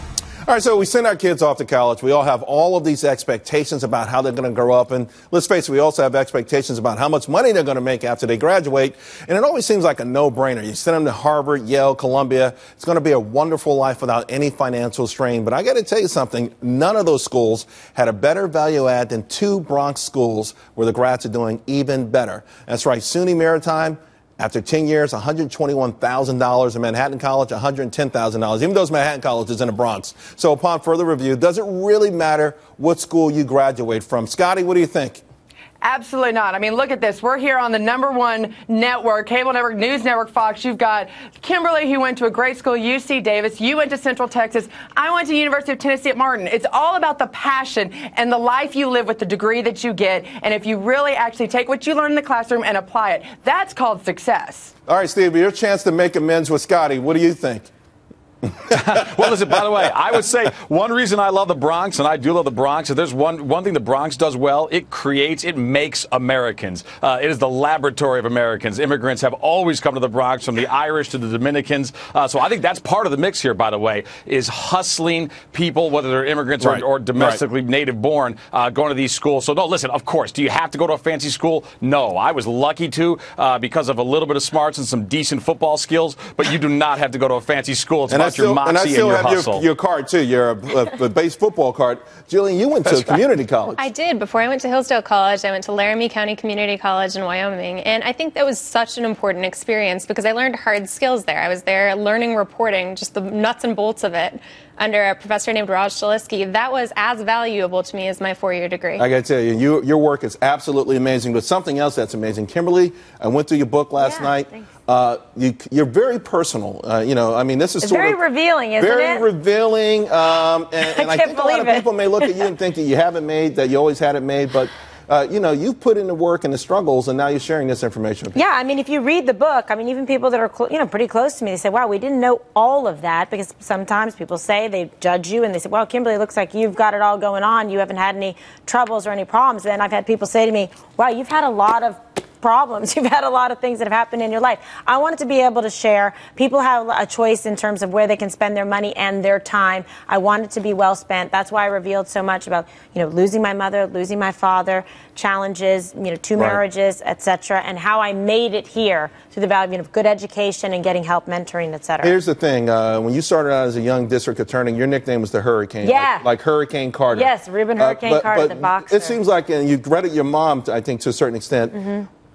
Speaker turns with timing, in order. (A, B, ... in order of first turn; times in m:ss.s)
0:00.5-0:35.2 A
0:35.8-0:54.7 B
0:54.9-0:57.7 A
0:58.7-1:29.6 C
1:16.6-1:17.4 A
1:28.1-1:33.8 A
1:33.8-1:49.0 D
1:49.0-1:58.2 A
1:54.0-1:54.3 E
1:57.8-1:59.2 E
1:58.8-2:08.4 A
2:00.8-2:02.4 E
2:08.4-2:42.1 E
2:42.0-2:51.8 A
2:45.8-2:46.2 E
2:47.1-2:49.2 E
2:51.7-2:52.1 E